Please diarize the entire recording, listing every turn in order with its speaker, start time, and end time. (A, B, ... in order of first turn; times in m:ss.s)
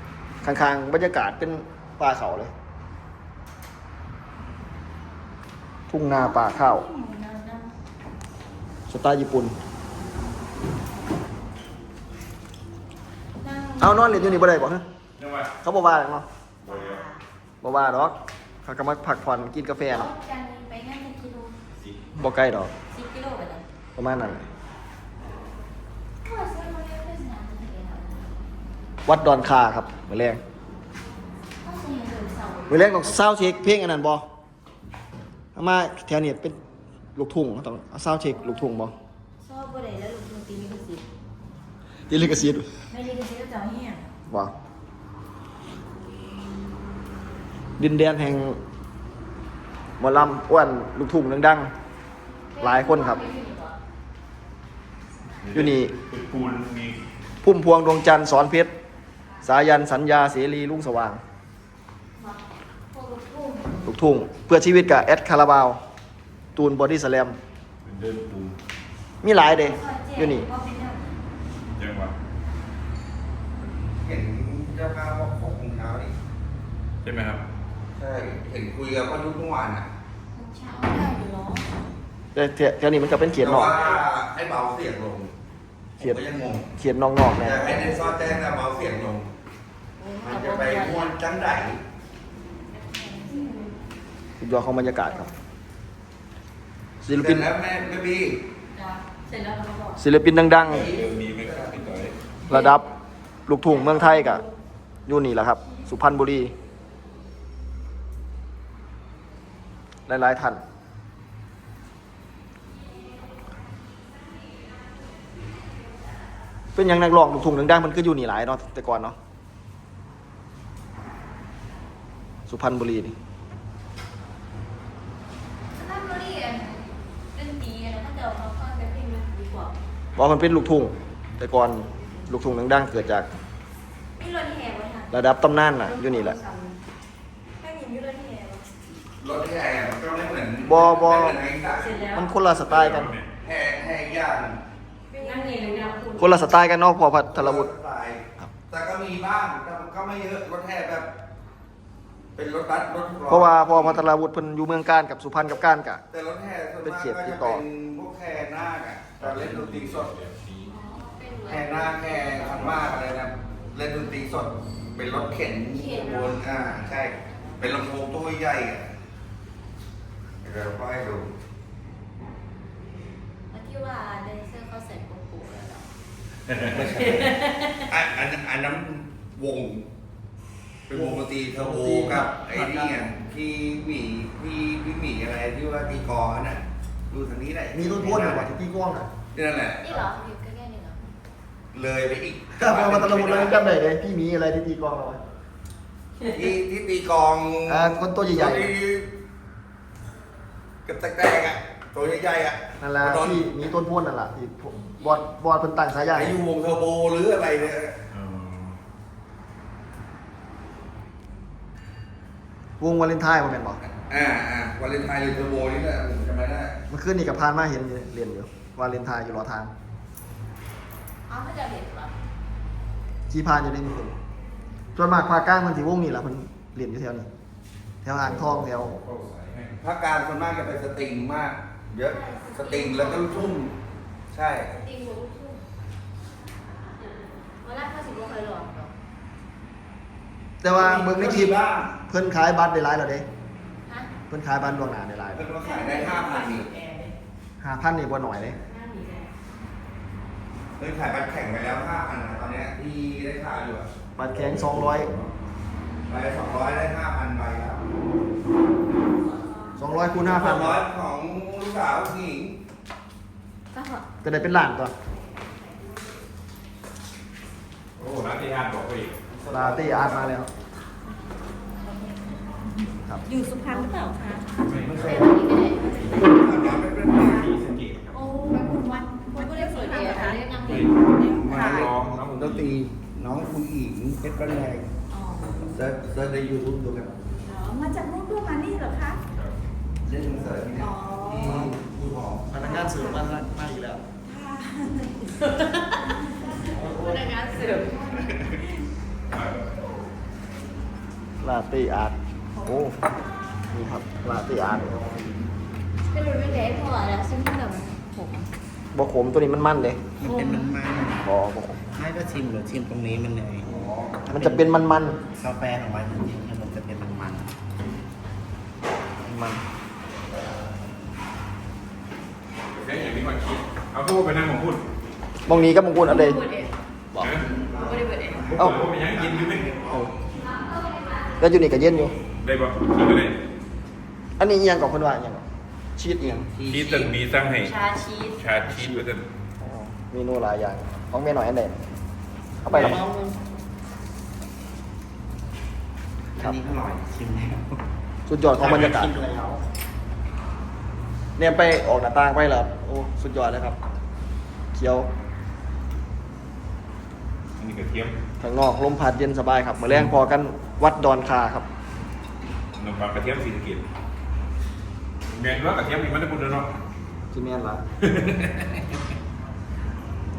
0:00.4-0:02.5 A
0:05.9-0:06.9 A
0:06.2-0:07.7 B
0:08.9-0:09.5 A
0:13.4-0:14.6 B
0:13.8-0:14.8 A
0:15.2-0:15.5 C
0:15.6-0:16.2 A
0:16.6-0:17.1 C
0:17.6-0:20.1 A
0:19.9-0:21.6 B
0:21.7-0:22.0 C
0:22.2-0:22.7 A
0:22.9-0:23.6 B
0:24.0-0:24.4 A
0:26.2-0:28.2 B
0:29.0-0:30.4 A
0:31.6-0:33.0 B
0:32.7-0:34.2 A
0:35.6-0:36.6 A
0:37.2-0:38.9 A
0:39.4-0:41.0 B
0:42.1-0:42.7 A
0:42.9-0:44.0 B
0:47.8-0:48.6 A
0:50.0-0:51.7 A
0:52.5-0:53.8 B
0:52.6-0:53.2 A
0:55.4-0:57.0 C
0:55.5-0:55.9 A
0:57.4-0:58.7 A
0:59.4-1:01.2 A
1:02.9-1:03.9 B
1:03.8-1:05.8 A
1:06.6-1:07.4 A
1:07.8-1:08.6 C
1:09.2-1:10.5 A
1:09.4-1:11.2 B
1:11.8-1:12.1 C
1:14.0-1:16.1 D
1:17.0-1:17.4 C
1:18.0-1:19.9 D
1:20.3-1:21.7 B
1:22.3-1:23.7 A
1:23.4-1:25.3 D
1:26.0-1:26.7 D
1:26.8-1:28.1 A
1:27.4-1:29.3 D
1:30.0-1:31.1 B
1:30.2-1:31.8 D
1:32.7-1:33.6 B
1:34.4-1:35.3 A
1:37.0-1:37.5 A
1:37.1-1:38.4 D
1:39.4-1:39.7 E
1:40.0-1:40.9 A
1:40.7-1:42.2 C
1:40.7-1:41.8 D
1:42.5-1:42.9 A
1:43.5-1:44.4 A
1:45.0-1:46.5 A
1:50.1-1:50.6 A
1:56.7-1:59.2 A
2:02.5-2:03.1 A
2:05.7-2:09.7 B
2:10.2-2:13.3 A
2:14.2-2:15.1 B
2:15.1-2:16.4 A
2:15.9-2:16.7 E
2:17.6-2:18.6 B
2:19.2-2:22.0 D
2:20.6-2:21.4 A
2:22.0-2:23.1 A
2:22.7-2:23.3 C
2:23.4-2:24.6 D
2:25.1-2:26.2 B
2:25.2-2:26.3 E
2:26.2-2:27.7 A
2:27.2-2:31.1 D
2:32.4-2:34.0 D
2:33.3-2:36.0 A
2:36.1-2:40.1 D
2:36.8-2:37.6 A
2:39.2-2:40.7 C
2:40.7-2:42.6 B
2:41.5-2:48.9 D
2:45.7-2:47.5 B
2:50.4-2:51.3 D
2:53.5-2:55.8 B
2:56.5-2:56.8 C
2:56.6-2:57.3 D
2:57.9-2:59.9 D
3:00.9-3:08.5 D
3:00.9-3:03.1 A
3:07.7-3:09.1 A
3:09.3-3:10.1 D
3:09.8-3:11.1 B
3:11.7-3:13.7 D
3:12.6-3:15.2 A
3:16.3-3:19.1 D
3:17.7-3:18.7 A
3:20.8-3:23.5 D
3:22.8-3:26.4 A
3:26.1-3:28.0 D
3:28.1-3:28.8 C
3:32.8-3:33.8 A
3:34.0-3:36.8 D
3:36.9-3:39.7 A
3:41.3-3:42.1 B
3:43.3-3:44.2 A
3:45.0-3:47.3 A
3:48.0-3:48.9 A
3:48.2-3:49.8 C
3:49.8-3:53.7 D
3:52.0-3:53.6 B
3:54.3-3:54.7 D
3:54.7-3:55.6 B
3:57.6-3:58.9 B
4:00.6-4:03.2 A
4:00.7-4:02.0 D
4:04.3-4:05.5 A
4:05.3-4:06.8 D
4:05.6-4:07.1 E
4:07.6-4:08.6 A
4:08.7-4:09.2 E
4:10.8-4:13.9 D
4:14.2-4:15.1 A
4:14.4-4:15.2 C
4:16.1-4:17.8 D
4:19.8-4:20.8 A
4:20.2-4:22.5 D
4:23.7-4:24.0 B
4:24.2-4:24.9 A
4:28.0-4:29.2 C
4:29.3-4:30.3 D
4:29.5-4:30.5 A
4:33.3-4:34.4 E
4:33.3-4:34.3 B
4:34.6-4:35.2 C
4:34.8-4:35.4 D
4:35.0-4:36.1 B
4:36.0-4:37.5 D
4:36.0-4:36.3 C
4:37.2-4:38.2 C
4:38.1-4:40.4 E
4:38.5-4:41.0 B
4:40.5-4:42.7 C
4:41.2-4:41.9 E
4:41.3-4:44.8 D
4:45.2-4:45.6 E
4:45.6-4:47.2 D
4:47.5-4:49.2 E
4:50.0-4:52.5 D
4:50.8-4:51.6 E
4:52.5-4:54.0 A
4:52.6-4:53.2 E
4:54.2-4:55.3 E
4:55.6-4:58.2 B
4:59.3-4:59.7 C
5:01.4-5:03.0 A
5:03.7-5:05.0 A
5:06.0-5:08.5 B
5:08.9-5:10.0 A
5:10.2-5:11.2 F
5:10.2-5:10.6 B
5:11.2-5:11.8 A
5:11.9-5:17.5 F
5:13.6-5:14.1 D
5:14.2-5:15.2 A
5:19.2-5:19.6 A
5:22.7-5:24.8 C
5:25.4-5:26.4 A
5:27.1-5:27.4 A
5:27.2-5:27.5 C
5:27.4-5:28.4 D
5:28.5-5:29.8 C
5:28.5-5:28.9 A
5:29.1-5:29.9 D
5:29.8-5:30.1 A
5:30.6-5:31.3 B
5:31.4-5:32.1 A
5:32.4-5:33.4 C
5:34.4-5:35.4 A
5:36.0-5:36.5 A
5:36.2-5:37.2 D
5:36.6-5:37.8 C
5:38.4-5:39.2 C
5:38.6-5:39.0 A
5:39.6-5:41.8 A
5:42.6-5:43.0 A
5:42.7-5:43.0 C
5:42.8-5:43.2 B
5:46.4-5:47.8 F
5:48.3-5:49.2 A
5:48.6-5:49.2 C
5:49.0-5:49.6 F
5:51.4-5:53.8 A
5:54.7-5:55.1 A
5:57.6-5:58.2 C
5:58.4-6:01.6 A
6:02.8-6:03.8 C
6:05.3-6:06.7 C
6:07.3-6:07.8 A
6:08.0-6:08.9 C